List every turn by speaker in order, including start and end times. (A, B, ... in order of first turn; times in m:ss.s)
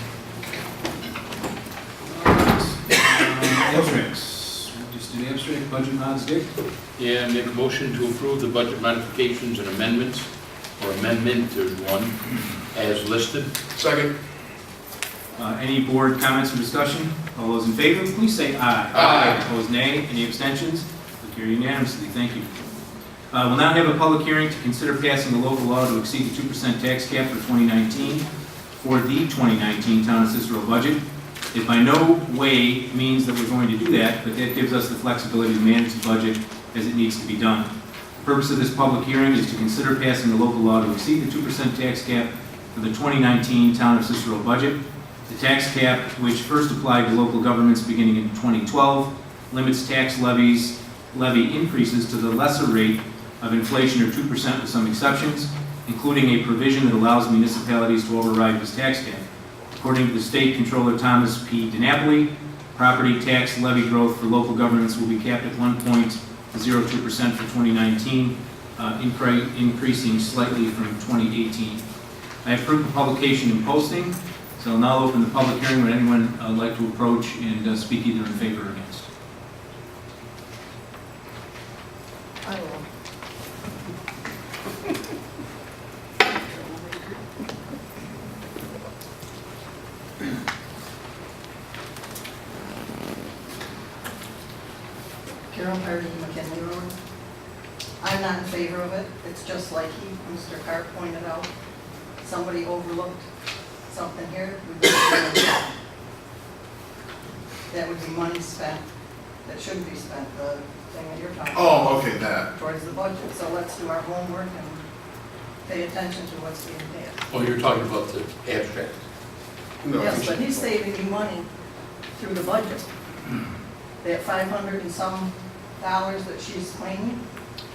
0:02.0-0:06.5 A
0:07.0-0:13.5 B
0:13.7-0:14.1 C
0:15.4-0:22.6 A
0:18.9-0:19.4 B
0:23.3-0:28.2 A
0:28.8-0:31.0 A
0:31.5-0:37.7 A
0:38.2-0:59.2 A
0:59.8-1:11.8 A
1:12.4-1:19.1 A
1:22.4-1:22.8 D
1:35.5-1:36.9 D
1:38.0-1:41.5 D
1:42.2-1:43.2 D
1:43.9-1:45.7 D
1:47.7-1:48.8 D
1:49.4-1:52.0 D
1:51.5-1:52.5 C
1:52.5-1:54.8 D
1:55.6-1:57.3 D
1:57.3-1:58.9 B
1:59.8-2:00.7 C
2:00.0-2:01.5 D
2:02.2-2:02.9 D
2:04.0-2:07.2 D